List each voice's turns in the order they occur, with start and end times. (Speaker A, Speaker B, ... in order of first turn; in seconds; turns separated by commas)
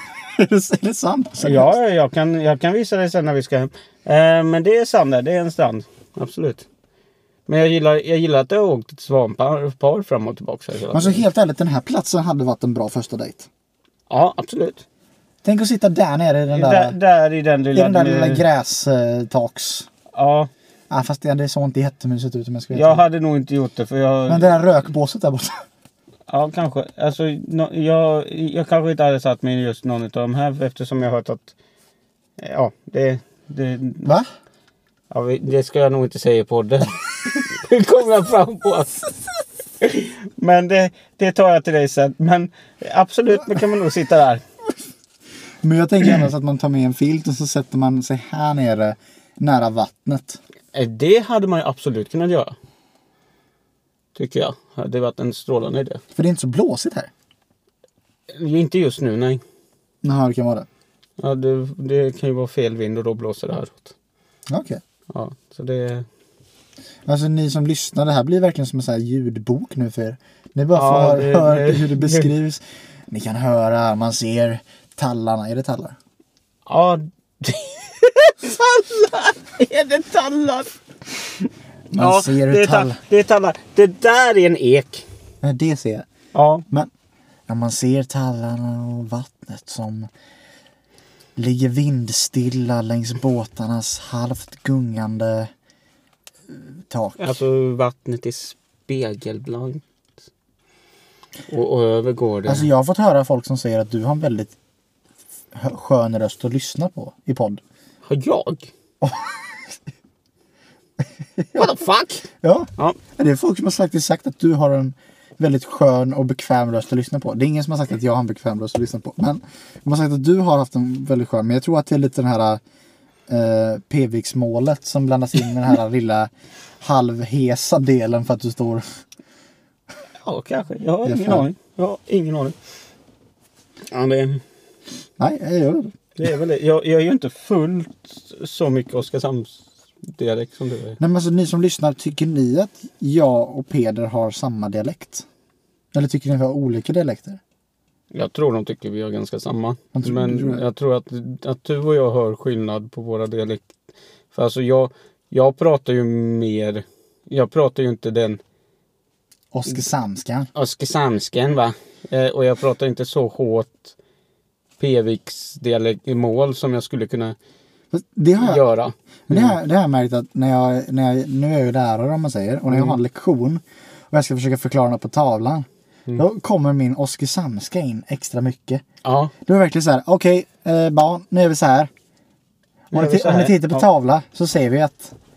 Speaker A: 0.3-1.7, Speaker B: 1.4-6.7, Speaker B: 7.5-11.2, Speaker A: 10.9-13.5, Speaker B: 14.1-14.8, Speaker A: 15.4-16.9, Speaker B: 16.5-18.4, Speaker A: 17.7-19.9, Speaker B: 20.1-20.5, Speaker A: 20.9-23.0, Speaker B: 22.7-24.6, Speaker A: 24.3-25.6, Speaker B: 26.3-31.5, Speaker B: 32.4-34.1, Speaker B: 35.1-39.0, Speaker B: 39.8-44.4, Speaker A: 45.6-50.4, Speaker B: 50.7-52.5, Speaker B: 54.1-56.0, Speaker A: 56.1-57.1, Speaker B: 58.3-59.4, Speaker A: 60.0-60.7, Speaker B: 61.2-63.9, Speaker A: 64.5-64.8, Speaker B: 65.1-66.1, Speaker A: 67.0-76.0, Speaker B: 70.7-72.3, Speaker B: 76.7-80.7, Speaker A: 81.9-83.0, Speaker B: 82.0-85.0, Speaker A: 85.4-86.0, Speaker B: 86.3-86.6, Speaker A: 87.5-90.1, Speaker A: 91.3-95.5, Speaker A: 96.5-97.4, Speaker B: 97.2-99.8, Speaker B: 101.5-102.7, Speaker A: 102.4-104.5, Speaker A: 105.5-107.6, Speaker B: 108.0-108.7, Speaker A: 109.0-109.5, Speaker A: 111.4-111.7, Speaker B: 111.5-112.2, Speaker A: 112.4-122.6, Speaker A: 123.3-126.3, Speaker A: 126.8-128.8, Speaker B: 130.2-132.6, Speaker A: 131.1-131.4, Speaker B: 133.9-134.4, Speaker A: 135.2-135.9, Speaker B: 136.2-141.0, Speaker A: 141.0-145.2, Speaker A: 145.9-147.4, Speaker B: 148.1-153.7, Speaker A: 149.9-150.6, Speaker B: 154.3-158.4, Speaker A: 159.5-160.5, Speaker B: 160.5-163.9, Speaker B: 164.8-167.3, Speaker A: 167.9-168.6, Speaker B: 168.4-169.6, Speaker A: 169.3-178.8, Speaker B: 172.7-172.9, Speaker B: 179.0-179.3, Speaker A: 179.4-181.9, Speaker B: 182.9-183.8, Speaker A: 182.9-185.1